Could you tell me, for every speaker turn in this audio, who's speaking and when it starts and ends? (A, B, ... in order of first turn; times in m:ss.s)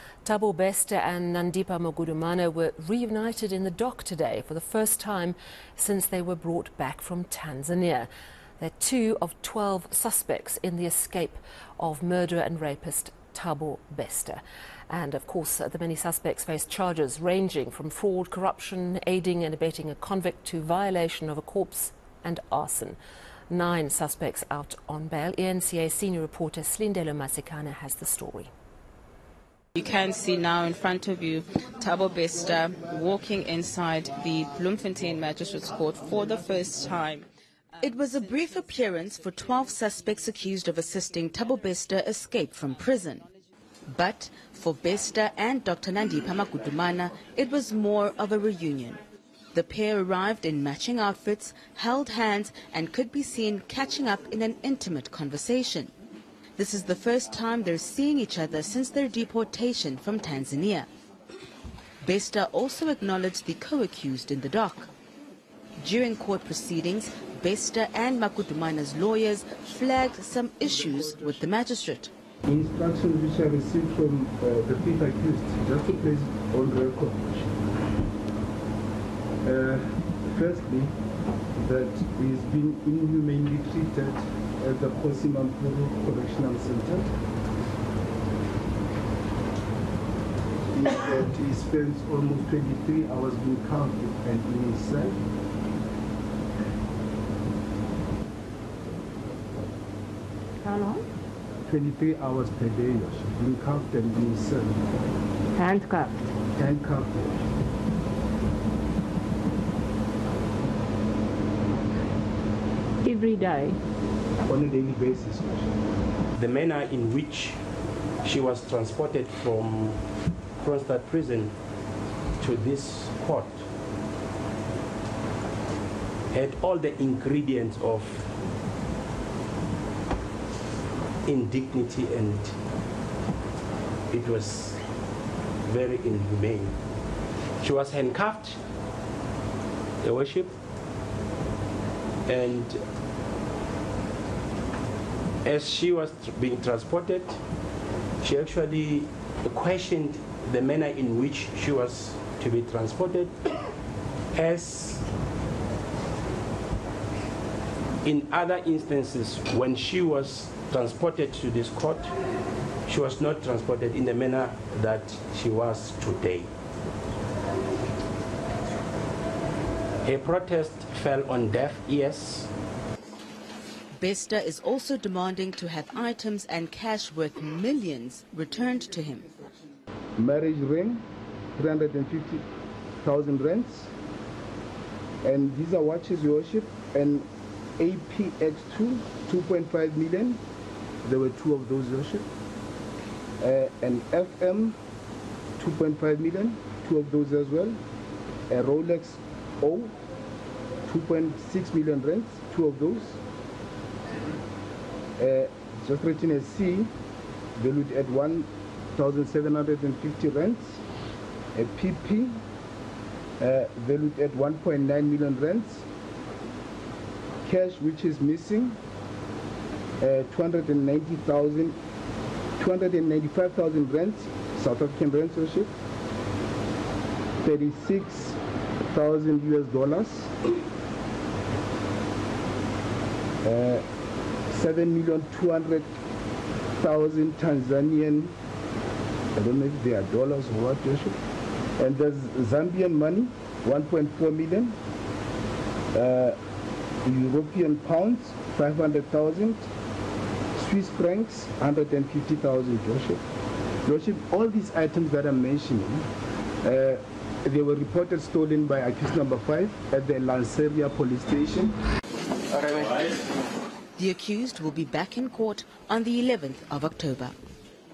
0:00.2-0:08.1 A
0:08.6-0:23.0 A
0:23.5-0:28.5 A
0:29.8-0:37.3 B
0:37.8-0:43.3 C
0:43.9-0:49.0 C
0:49.5-0:55.9 C
0:56.6-1:00.9 C
1:02.0-1:04.9 C
1:05.8-1:12.1 C
1:12.4-1:17.7 D
1:19.4-1:20.9 D
1:21.6-1:27.1 D
1:30.7-1:35.2 D
1:40.6-1:41.0 E
1:41.7-1:44.9 D
1:45.6-1:46.2 E
1:46.6-1:47.5 D
1:53.0-1:53.8 E
1:54.4-1:55.7 D
1:56.4-1:57.6 F
1:58.2-2:00.0 F
2:00.6-2:01.5 F
2:02.4-2:03.6 F
2:06.3-2:08.3 F
2:11.3-2:12.5 F
2:14.1-2:14.8 F
2:15.6-2:16.8 F
2:17.6-2:18.6 F
2:20.0-2:20.6 F
2:22.3-2:22.8 F
2:25.4-2:27.4 F
2:28.2-2:33.3 F
2:34.3-2:35.1 F
2:38.0-2:42.1 F
2:42.9-2:46.5 F
2:50.0-2:52.5 F
2:54.0-2:59.3 C
3:00.2-3:01.0 D
3:01.6-3:02.4 D
3:03.0-3:03.9 D
3:05.2-3:07.3 D
3:07.8-3:10.4 D
3:11.0-3:12.3 D
3:13.4-3:14.8 D
3:15.6-3:17.8 D
3:18.5-3:19.9 D
3:20.8-3:23.2 D
3:25.2-3:26.9 D
3:27.6-3:30.8 D
3:31.6-3:32.4 D
3:33.4-3:35.9 D
3:37.4-3:38.8 D
3:40.0-3:41.8 D
3:42.6-3:45.7 D
3:47.4-3:50.5 D
3:53.4-3:53.8 D
3:54.5-3:55.9 D
3:56.8-3:58.3 D
3:59.4-4:01.2 D
4:01.8-4:04.8 D
4:05.9-4:06.4 D
4:07.0-4:09.6 D
4:10.6-4:13.2 D
4:13.8-4:16.1 D
4:16.6-4:21.8 D
4:24.0-4:27.4 C